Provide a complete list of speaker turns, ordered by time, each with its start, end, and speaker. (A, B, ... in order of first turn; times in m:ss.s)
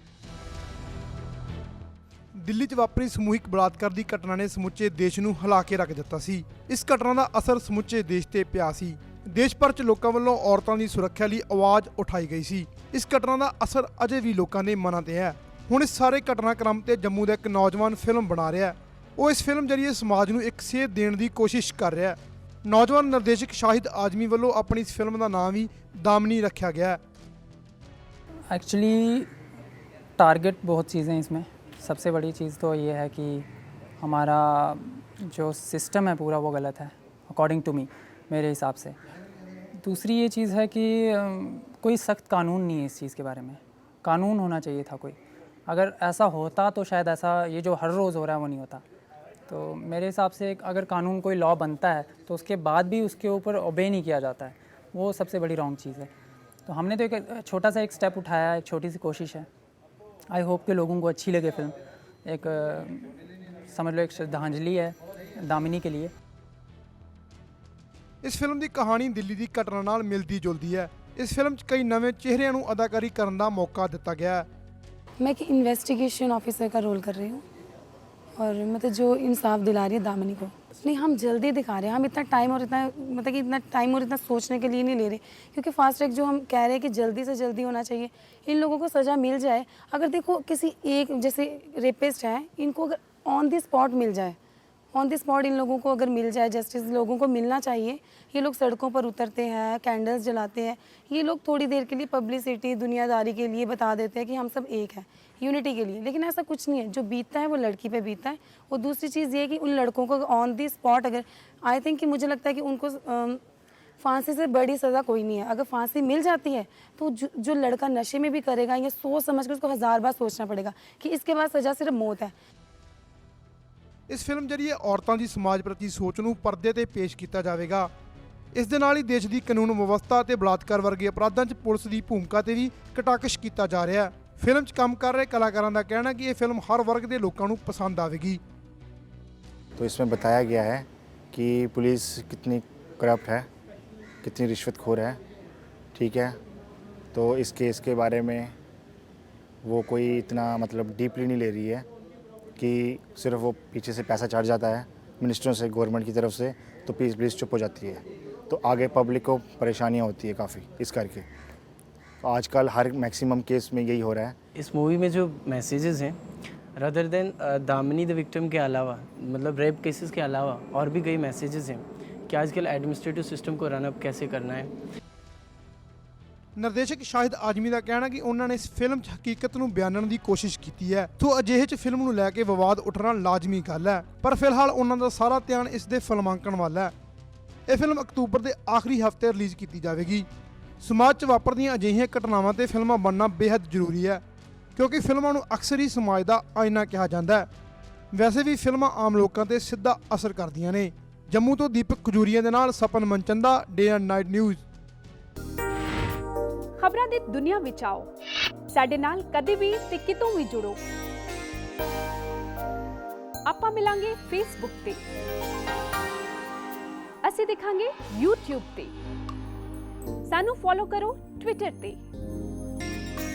0:02.3-0:27.0 A
0:28.5-0:29.3 B
0:30.2-0:33.5 B
0:34.0-0:39.0 B
0:39.8-0:48.8 B
0:49.5-0:56.1 B
0:56.6-0:59.5 B
1:00.3-1:03.1 B
1:03.7-1:06.1 B
1:08.2-1:14.5 A
1:15.2-1:17.4 C
1:18.4-1:34.4 C
1:34.9-1:53.4 C
1:54.0-2:02.3 C
2:04.1-2:07.9 A
2:08.5-2:18.4 A
2:19.8-2:23.5 D
2:24.2-2:25.2 D
2:25.9-2:26.4 D
2:27.1-2:28.5 D
2:29.6-2:31.8 D
2:32.6-2:41.2 D
2:42.2-2:44.3 D
2:44.5-2:46.2 E
2:46.7-2:54.7 E
2:56.6-3:06.9 A
3:07.7-3:10.3 A
3:10.8-3:14.2 A
3:14.8-3:17.5 A
3:18.1-3:24.6 A
3:26.8-3:28.1 F
3:28.7-3:30.8 F
3:33.4-3:35.0 F
3:37.2-3:38.9 F
3:40.3-3:42.0 F